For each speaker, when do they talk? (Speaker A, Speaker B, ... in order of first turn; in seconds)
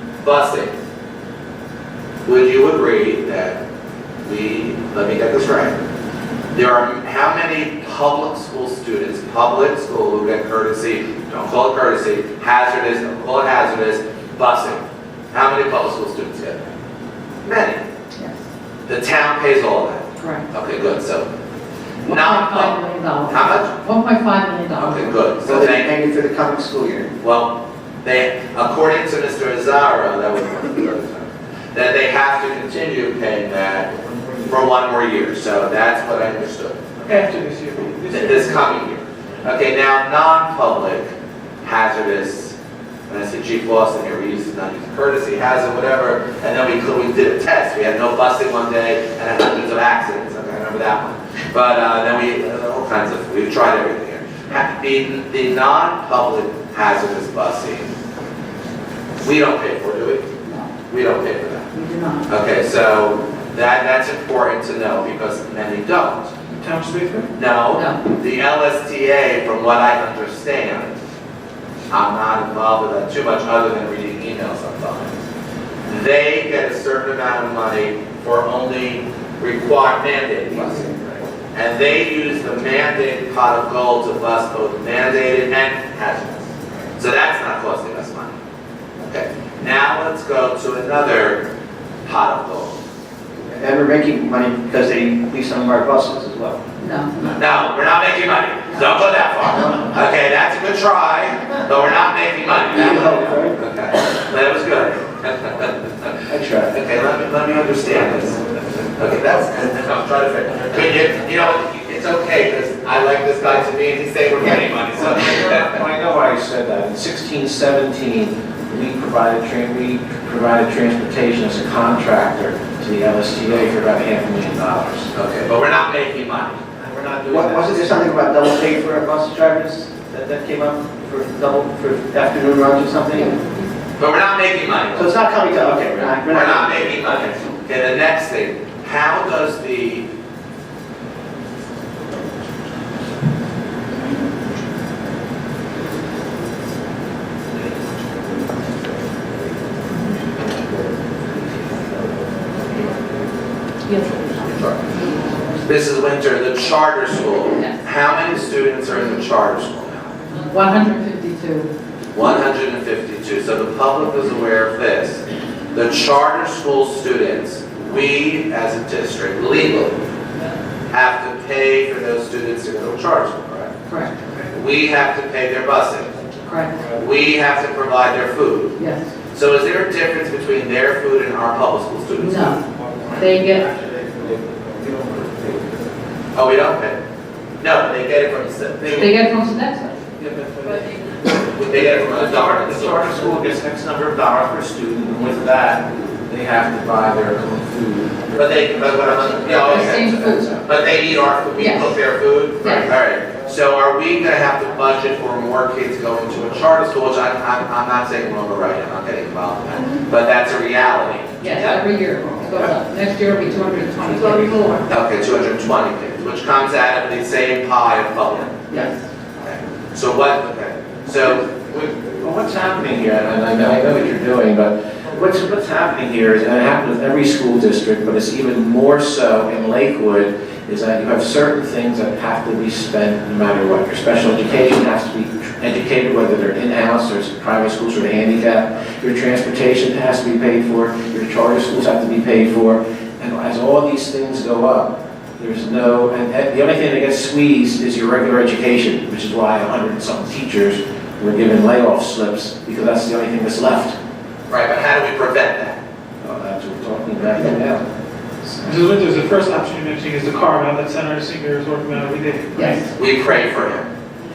Speaker A: 0.2-0.7, 2.3-3.6, 4.2-5.8, 6.5-16.7, 17.4-17.8, 18.9-21.3, 22.1-22.8, 23.3-23.7, 24.8-25.9, 27.2-33.9, 34.4-36.8, 38.1-41.1, 41.6-42.6, 43.1-57.9, 59.2-60.2, 60.9-61.7, 62.3-66.3, 67.3-71.0, 71.9-75.2, 75.9-80.9, 81.5-88.4, 89.0-91.4, 92.0-92.8, 97.3-115.8, 125.1-126.6, 134.0-135.1, 136.2-140.1, 154.3-160.2, 162.1-170.0, 170.9-173.8, 174.5-176.1, 176.9-178.8, 179.3-182.6, 186.3-187.0, 187.6-189.2, 191.5-193.2, 198.3-211.4, 214.9-218.7, 219.4-221.9, 254.5-255.8, 262.9-263.9
Speaker B: 20.2-20.4, 22.1-25.2, 60.4-60.7, 61.7-62.3, 67.7-68.0, 96.8-97.5, 133.1-133.7, 160.3-161.7, 173.9-174.3, 176.4-176.8, 178.8-179.1, 182.2-182.6, 183.1-183.7, 188.8-190.0, 199.6-200.6, 201.6-201.9, 202.6-202.9, 211.4-214.8, 218.7-218.9, 262.6-262.9
Speaker C: 25.4-27.1, 80.7-81.0, 93.5-96.6, 102.7-103.6, 127.3-133.3, 134.9-137.3
Speaker D: 37.0-38.8, 66.5-67.3, 258.6-262.9
Speaker E: 106.3-106.8, 115.0-125.1, 126.8-128.0, 184.8-185.6, 190.2-190.9, 191.6-200.6, 222.2-253.9, 256.2-257.8